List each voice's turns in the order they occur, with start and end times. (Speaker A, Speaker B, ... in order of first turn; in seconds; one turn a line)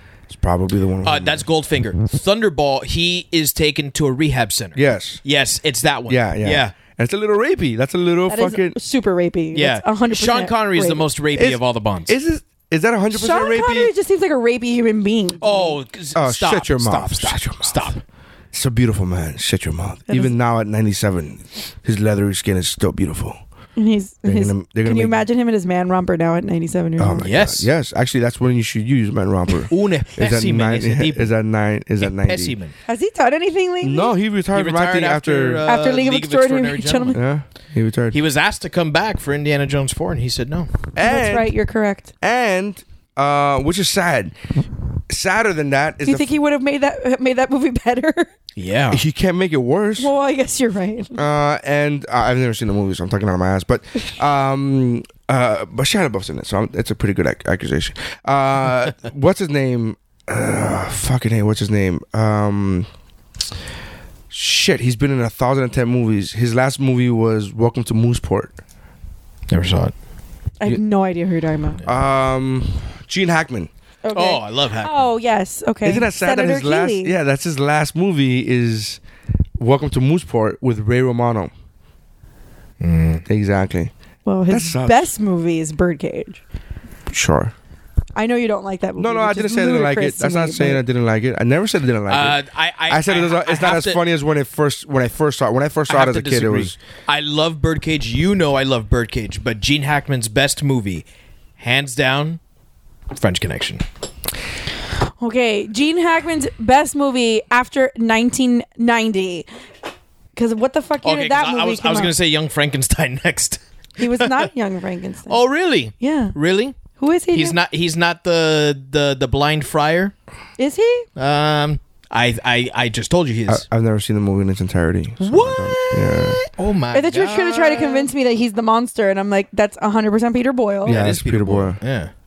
Speaker A: 0.3-1.4
Speaker B: 1.0-6.7
Speaker A: 4.7-5.2
Speaker A: 6.1-8.8
Speaker C: 8.3-11.0
Speaker B: 9.5-12.2
Speaker A: 11.3-13.9
Speaker C: 13.1-15.8
Speaker B: 15.4-18.0
Speaker A: 16.1-17.9
Speaker A: 18.5-23.4
Speaker C: 23.8-27.2
Speaker A: 24.2-25.2
Speaker A: 27.0-32.5
Speaker B: 27.2-27.7
Speaker B: 29.7-31.3
Speaker B: 32.0-32.7
Speaker C: 32.9-34.1
Speaker A: 33.8-35.6
Speaker B: 34.5-37.2
Speaker C: 35.6-37.2
Speaker A: 37.1-38.2
Speaker B: 38.1-40.7
Speaker A: 40.9-41.5
Speaker C: 41.0-42.1
Speaker A: 42.2-44.3
Speaker A: 45.1-46.3
Speaker C: 46.0-48.3
Speaker B: 48.6-49.0
Speaker A: 48.9-50.1
Speaker C: 50.0-51.2
Speaker A: 51.1-62.9
Speaker A: 64.3-68.6
Speaker B: 69.5-69.9
Speaker C: 70.6-71.8
Speaker A: 71.8-73.7
Speaker C: 74.0-77.1
Speaker B: 74.1-75.0
Speaker A: 75.8-79.0
Speaker A: 79.6-81.5
Speaker B: 82.8-83.2
Speaker A: 83.2-83.9
Speaker C: 84.2-86.4
Speaker A: 84.5-85.1
Speaker A: 87.1-87.5
Speaker C: 88.2-90.8
Speaker A: 89.0-96.8
Speaker B: 92.1-94.0
Speaker B: 95.9-101.0
Speaker B: 101.6-102.4
Speaker B: 103.1-103.8
Speaker C: 105.2-109.5
Speaker C: 110.3-112.1
Speaker B: 111.0-114.5
Speaker C: 114.0-115.4
Speaker B: 115.3-116.8
Speaker C: 116.0-116.3
Speaker C: 117.0-117.6
Speaker B: 117.3-120.1
Speaker C: 120.6-121.1
Speaker B: 121.2-123.6
Speaker A: 123.5-126.4
Speaker B: 125.2-128.1
Speaker C: 126.9-131.0
Speaker A: 130.8-131.8
Speaker B: 130.8-132.1